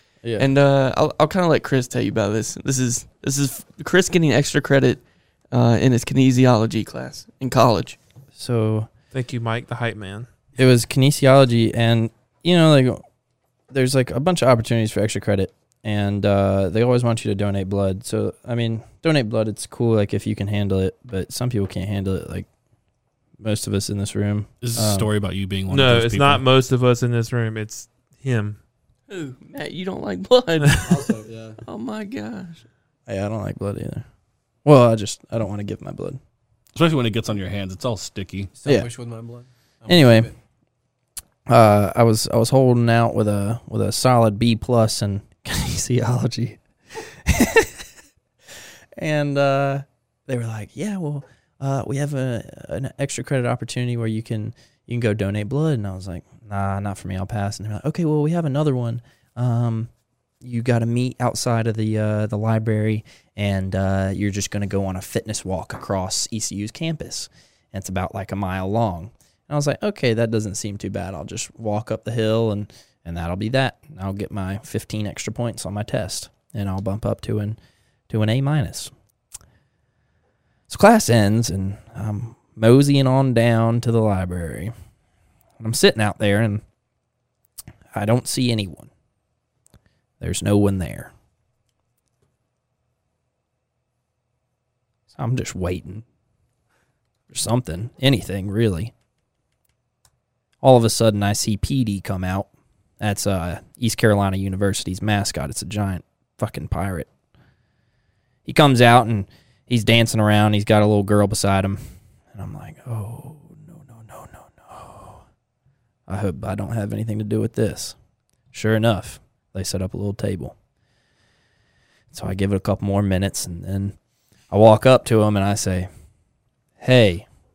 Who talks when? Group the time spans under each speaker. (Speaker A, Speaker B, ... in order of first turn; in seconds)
Speaker A: 0.4-8.0, 29.1-31.0, 31.6-32.6
Speaker B: 8.4-8.9, 10.6-13.0, 13.7-22.5, 23.4-25.1, 33.1-34.1, 34.6-36.2, 39.9-40.3, 41.5-47.9, 49.0-59.9, 60.4-77.6, 78.1-78.9, 80.7-84.7, 85.6-86.6, 87.9-88.9, 90.2-91.1, 95.1-96.0, 97.3-98.9, 100.6-102.5, 103.0-107.1, 108.5-111.8, 112.3-115.2, 116.1-118.0, 118.5-120.5, 122.1-124.0, 124.5-125.9, 126.8-127.3
Speaker C: 9.1-10.3, 25.7-28.6
Speaker D: 24.6-26.4, 36.8-38.5
Speaker E: 30.8-31.6, 38.5-40.4